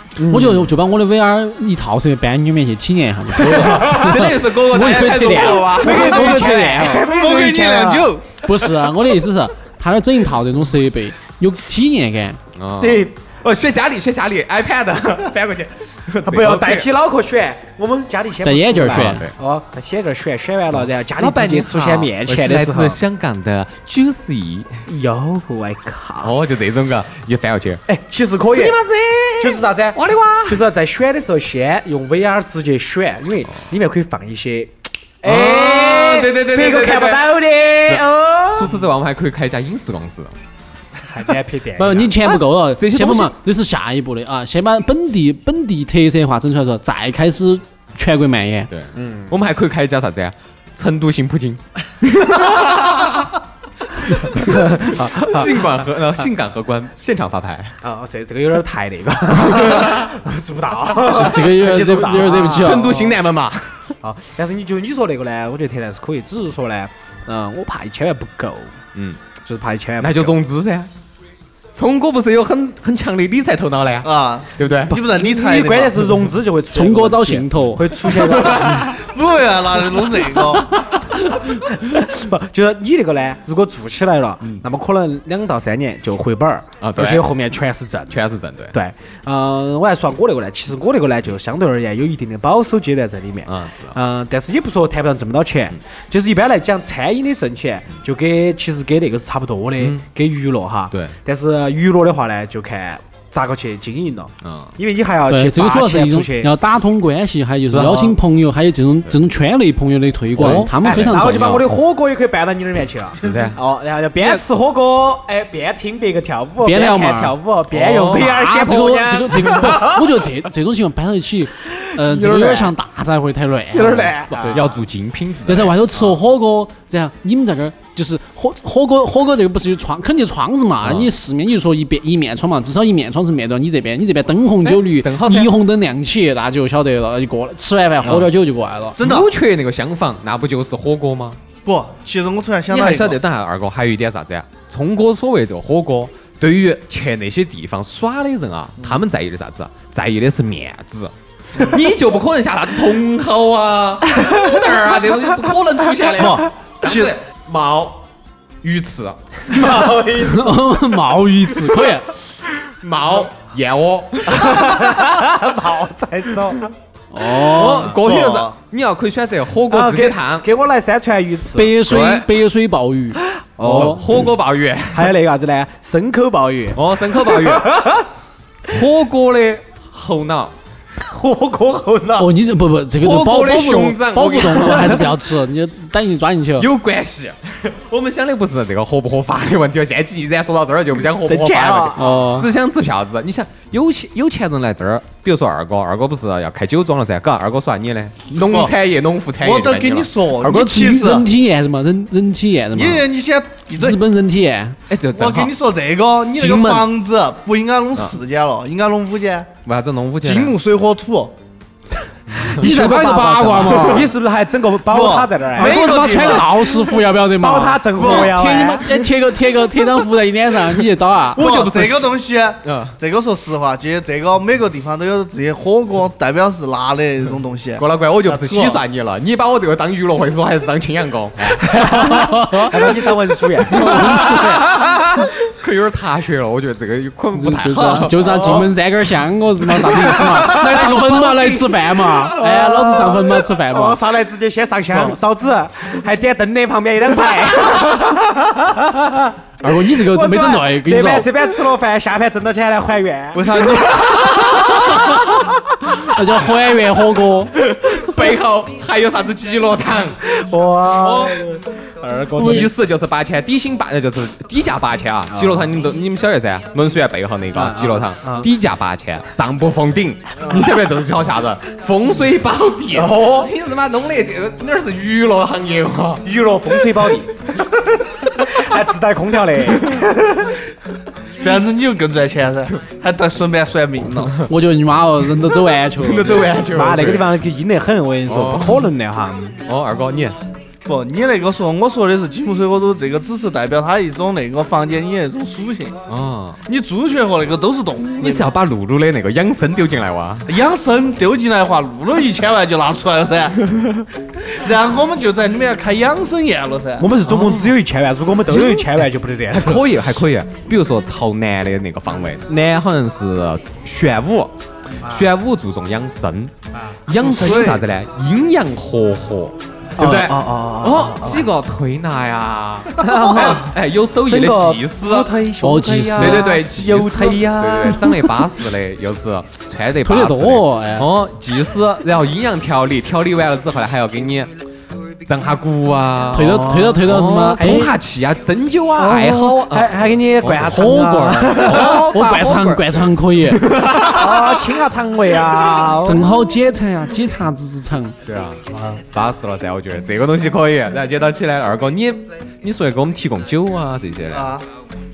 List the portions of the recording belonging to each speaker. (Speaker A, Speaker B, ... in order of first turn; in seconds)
Speaker A: 0.2-0.7, 3.5-4.1, 5.0-8.1, 12.8-13.1, 16.2-23.0, 24.9-26.4, 27.9-28.8, 29.4-38.8, 41.1-42.2, 49.0-49.4, 54.3-55.7, 57.8-63.2, 64.0-68.8, 69.4-70.4, 74.9-79.0, 81.1-88.2, 88.7-106.5, 110.4-120.3, 121.7-122.7, 123.7-124.6, 159.5-160.7, 164.3-166.7, 169.7-171.8, 173.4-174.3, 174.9-178.1, 181.0-182.3, 191.1-192.2, 212.4-216.6, 217.4-218.9, 231.6-235.3, 238.2-238.6, 240.2-240.8, 242.3-254.9, 260.2-262.7, 265.3-265.7, 267.5-268.5, 272.9-273.5, 276.2-277.3, 278.3-280.3, 286.5-289.6, 307.0-309.9, 315.0-315.3, 316.8-317.8, 320.0-321.4, 323.0-328.4, 336.4-337.0, 337.6-337.8, 339.0-342.0, 344.0-346.3
Speaker B: 0.3-7.1, 8.4-12.4, 18.4-19.2, 41.8-48.7, 61.0-63.0, 76.7-78.2, 105.3-111.7, 116.6-117.4, 117.9-124.6, 125.5-139.0, 160.2-162.1, 167.1-168.0, 171.6-174.1, 182.2-186.7, 192.0-192.5, 200.4-203.1, 203.8-204.8, 206.3-206.9, 212.6-214.1, 215.6-221.5, 231.7-232.9, 233.7-234.7, 237.3-244.0, 249.6-251.3, 256.0-257.6, 262.4-262.7, 284.5-286.5, 325.6-326.5, 330.0-331.1, 336.3-337.9, 340.5-343.7, 346.0-348.2
Speaker C: 3.4-6.6, 12.5-16.9, 18.8-19.4, 21.0-24.8, 26.2-27.8, 28.5-30.6, 35.2-40.4, 42.8-43.3, 48.7-53.4, 54.1-57.8, 59.4-60.1, 62.4-63.9, 69.0-69.2, 70.0-70.9, 71.8-75.0, 86.8-87.3, 88.1-88.8, 93.5-94.0, 99.8-100.0, 104.4-104.7, 107.6-108.2, 110.3-111.2, 113.2-113.6, 117.7-118.3, 124.4-126.2, 130.8-131.1, 134.6-135.5, 139.0-141.4, 142.7-158.1, 158.6-159.9, 162.7-165.0, 167.2-170.5, 171.9-172.3, 173.6-175.1, 176.7-177.9, 178.7-180.6, 182.9-185.2, 186.6-200.1, 204.9-205.5, 209.7-210.6, 212.3-212.7, 221.3-223.0, 227.8-231.8, 233.7-238.7, 239.8-241.8, 254.0-255.2, 257.5-260.2, 260.9-261.5, 262.4-276.9, 284.0-284.5, 285.4-287.3, 288.3-288.9, 289.6-290.4, 296.1-296.6, 298.2-300.5, 307.2-307.8, 308.5-316.5, 317.1-325.4, 326.2-334.5, 335.2-340.9, 341.5-344.7, 348.2-354.6
Speaker D: 6.7-8.4, 74.0-76.2, 78.6-80.7, 139.0-139.3, 141.7-143.2, 156.1-157.1, 168.0-168.5, 198.3-198.7, 199.4-201.3, 202.7-204.0, 205.1-209.5, 210.2-211.3, 214.9-216.8, 218.0-218.4, 221.4-228.8, 253.3-254.3, 281.4-284.4, 290.9-296.0, 296.7-298.5, 300.5-303.7, 304.6-307.1, 348.7-349.0, 354.3-354.6